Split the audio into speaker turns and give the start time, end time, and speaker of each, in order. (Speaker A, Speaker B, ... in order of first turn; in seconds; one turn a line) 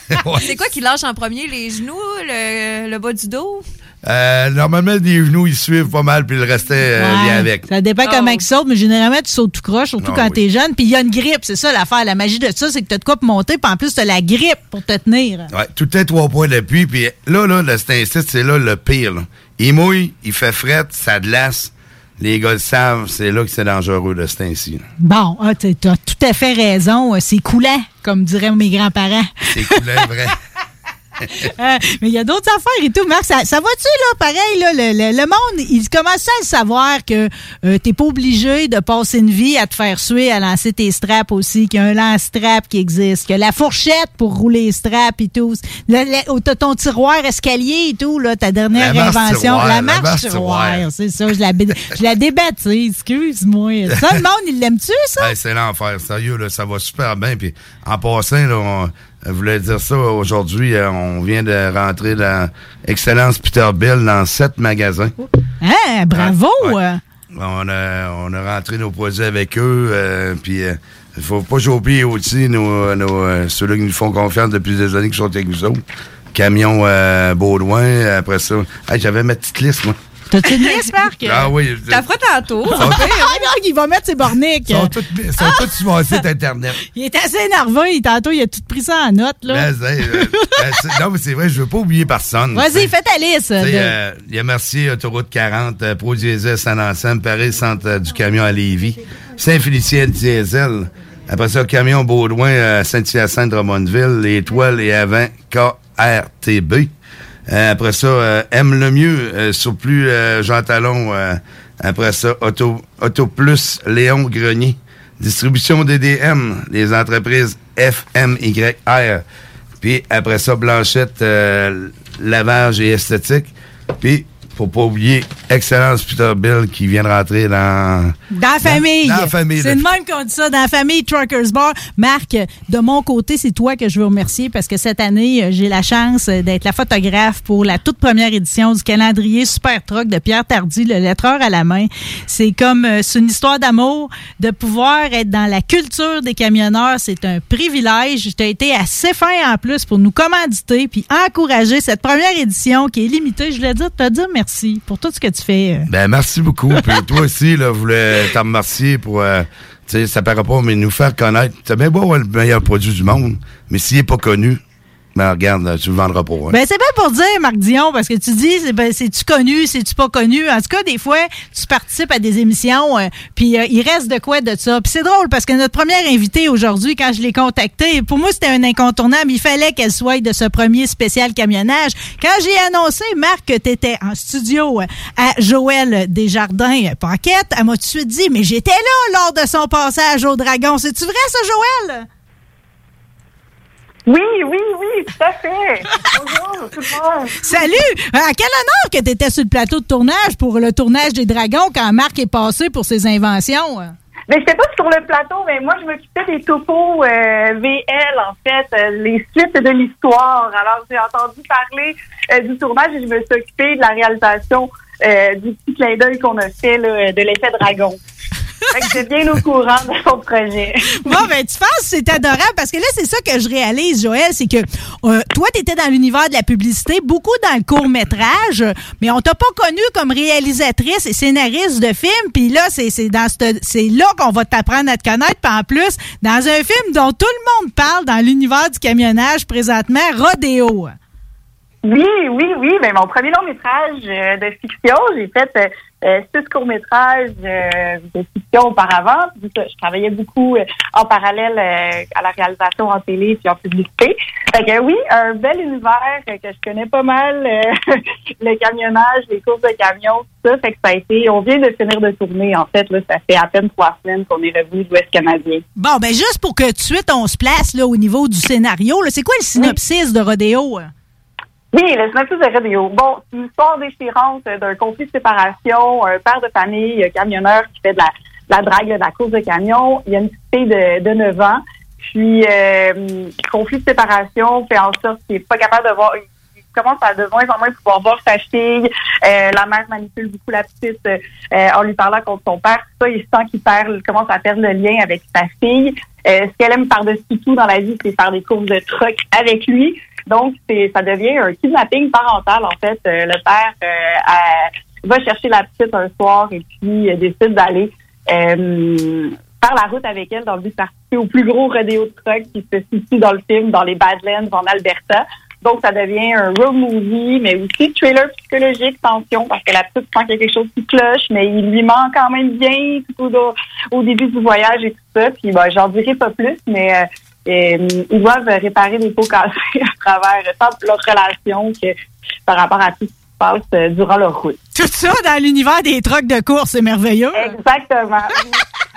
Speaker A: 0.2-0.5
Speaker B: 0.4-3.6
Speaker A: 4.0-7.6
Speaker C: 7.0-15.5
Speaker B: 8.0-8.4
Speaker A: 10.0-10.4
Speaker A: 15.5-24.8
Speaker C: 25.0-29.8
Speaker A: 29.5-30.3
Speaker C: 31.4-55.3
Speaker A: 48.7-50.8
Speaker A: 55.2-65.1
Speaker C: 65.6-67.0
Speaker A: 66.1-66.8
Speaker A: 67.3-75.8
Speaker A: 76.3-80.0
Speaker C: 80.3-81.5
Speaker B: 80.5-81.1
Speaker A: 81.2-82.0
Speaker B: 81.9-83.4
Speaker C: 82.7-84.9
Speaker A: 82.8-83.0
Speaker A: 84.7-86.8
Speaker C: 86.9-89.7
Speaker A: 89.5-92.9
Speaker C: 90.2-90.5
Speaker C: 92.5-93.9
Speaker A: 93.6-106.9
Speaker A: 107.5-119.2
Speaker A: 119.8-129.8
Speaker C: 128.3-155.9
Speaker A: 155.9-164.6
Speaker A: 165.1-166.6
Speaker C: 166.5-192.1
Speaker D: 194.1-197.3
Speaker C: 197.4-203.9
Speaker D: 204.3-218.0
Speaker D: 218.7-221.1
Speaker C: 221.0-240.9
Speaker D: 241.8-265.6
Speaker C: 265.8-270.9
Speaker D: 271.7-286.2
Speaker D: 286.7-331.9
Speaker D: 332.5-334.6
Speaker C: 334.7-337.5
Speaker D: 337.4-338.4